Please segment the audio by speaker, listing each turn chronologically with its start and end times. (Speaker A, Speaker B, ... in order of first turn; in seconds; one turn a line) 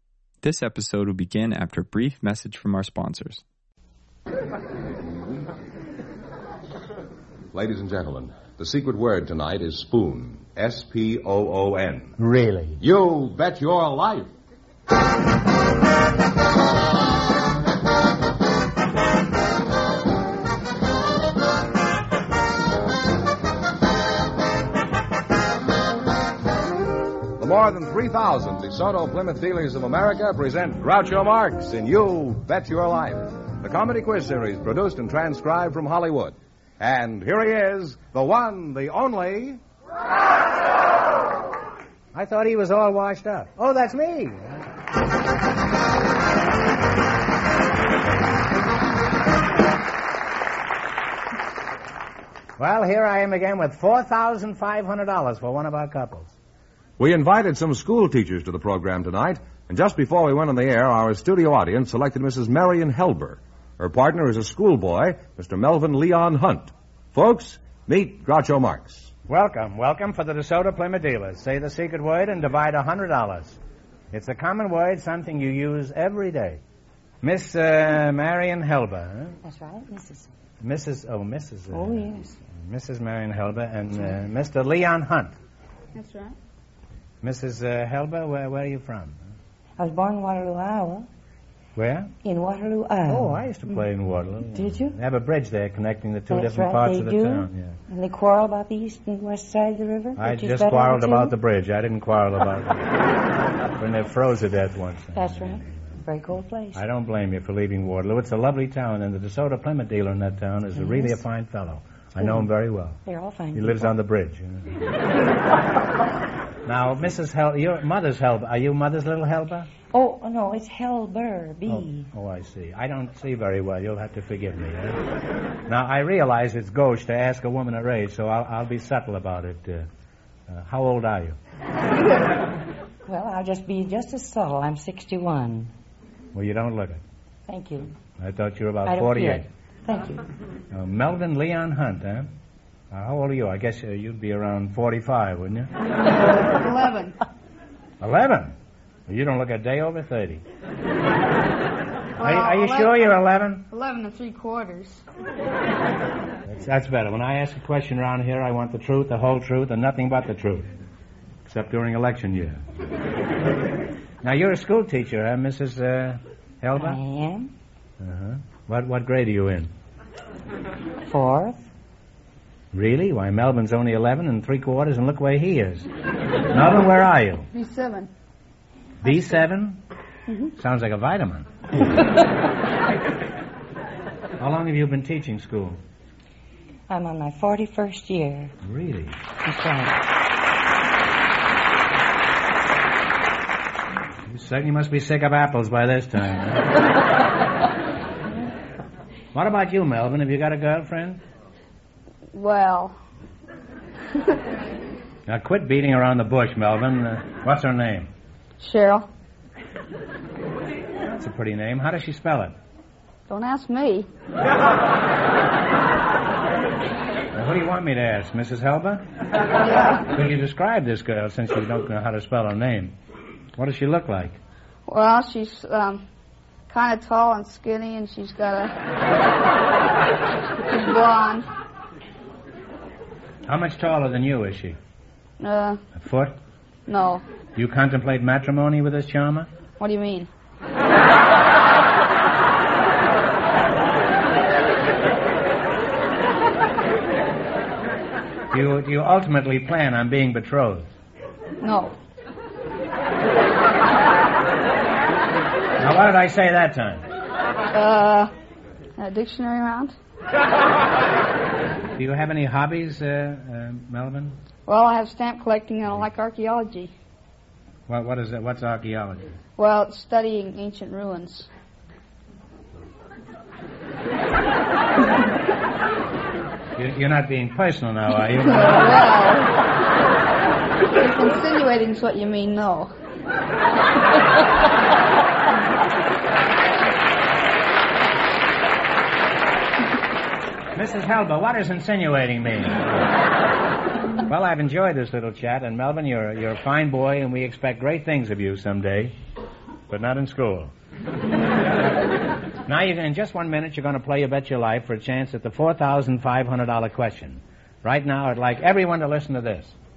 Speaker A: 0.4-3.4
Speaker B: 7.5-12.1
Speaker C: 12.2-12.8
Speaker B: 12.8-14.3
Speaker B: 27.4-39.6
Speaker C: 42.1-44.6
Speaker C: 52.6-56.4
Speaker B: 57.0-69.1
Speaker C: 69.3-73.6
Speaker C: 74.1-76.6
Speaker C: 77.2-79.4
Speaker D: 79.4-80.3
Speaker C: 80.6-85.3
Speaker D: 81.7-82.4
Speaker E: 85.9-86.4
Speaker C: 87.2-89.2
Speaker D: 89.8-91.1
Speaker C: 91.8-92.1
Speaker D: 92.2-93.9
Speaker C: 93.1-97.8
Speaker D: 94.5-95.0
Speaker D: 96.3-101.3
Speaker C: 100.2-102.8
Speaker C: 103.8-105.6
Speaker D: 105.1-106.8
Speaker C: 106.8-113.0
Speaker D: 110.8-111.2
Speaker D: 112.2-112.5
Speaker D: 113.0-113.9
Speaker C: 113.5-114.7
Speaker C: 116.7-119.7
Speaker D: 119.9-122.1
Speaker C: 121.7-125.0
Speaker C: 125.7-129.9
Speaker C: 130.5-131.4
Speaker D: 133.1-135.7
Speaker C: 136.3-137.0
Speaker D: 137.5-137.9
Speaker C: 138.2-139.5
Speaker D: 138.8-140.2
Speaker C: 140.7-142.3
Speaker C: 142.9-145.7
Speaker E: 146.5-147.2
Speaker C: 148.0-148.6
Speaker C: 149.1-150.4
Speaker E: 152.2-153.1
Speaker C: 152.2-153.7
Speaker E: 153.7-155.0
Speaker C: 156.5-160.7
Speaker C: 161.5-162.6
Speaker C: 164.2-167.0
Speaker D: 166.7-167.5
Speaker C: 168.0-169.7
Speaker D: 171.0-171.7
Speaker C: 172.7-175.9
Speaker C: 176.5-177.5
Speaker E: 177.5-178.1
Speaker C: 179.0-179.8
Speaker C: 180.6-181.5
Speaker C: 184.4-185.8
Speaker D: 186.9-188.5
Speaker C: 188.6-189.2
Speaker D: 189.4-190.0
Speaker C: 194.3-196.7
Speaker C: 199.3-201.2
Speaker E: 202.3-203.0
Speaker C: 205.3-208.1
Speaker E: 208.6-209.1
Speaker C: 211.0-212.6
Speaker E: 213.3-214.1
Speaker C: 217.3-219.1
Speaker E: 219.6-220.1
Speaker C: 220.1-223.0
Speaker C: 223.6-224.4
Speaker E: 224.9-226.0
Speaker E: 226.7-228.8
Speaker E: 230.7-231.5
Speaker C: 233.5-234.8
Speaker E: 235.4-235.8
Speaker C: 235.9-236.4
Speaker E: 236.9-237.2
Speaker C: 237.6-239.5
Speaker E: 239.8-240.3
Speaker C: 248.5-250.9
Speaker E: 251.6-252.0
Speaker C: 255.8-257.1
Speaker E: 257.7-258.3
Speaker E: 259.0-259.9
Speaker C: 262.0-264.4
Speaker E: 264.7-266.9
Speaker C: 267.9-269.4
Speaker E: 269.6-271.5
Speaker C: 276.8-279.0
Speaker E: 278.4-279.5
Speaker E: 281.0-282.9
Speaker C: 290.8-293.1
Speaker C: 294.3-299.1
Speaker C: 299.9-300.7
Speaker C: 302.7-309.8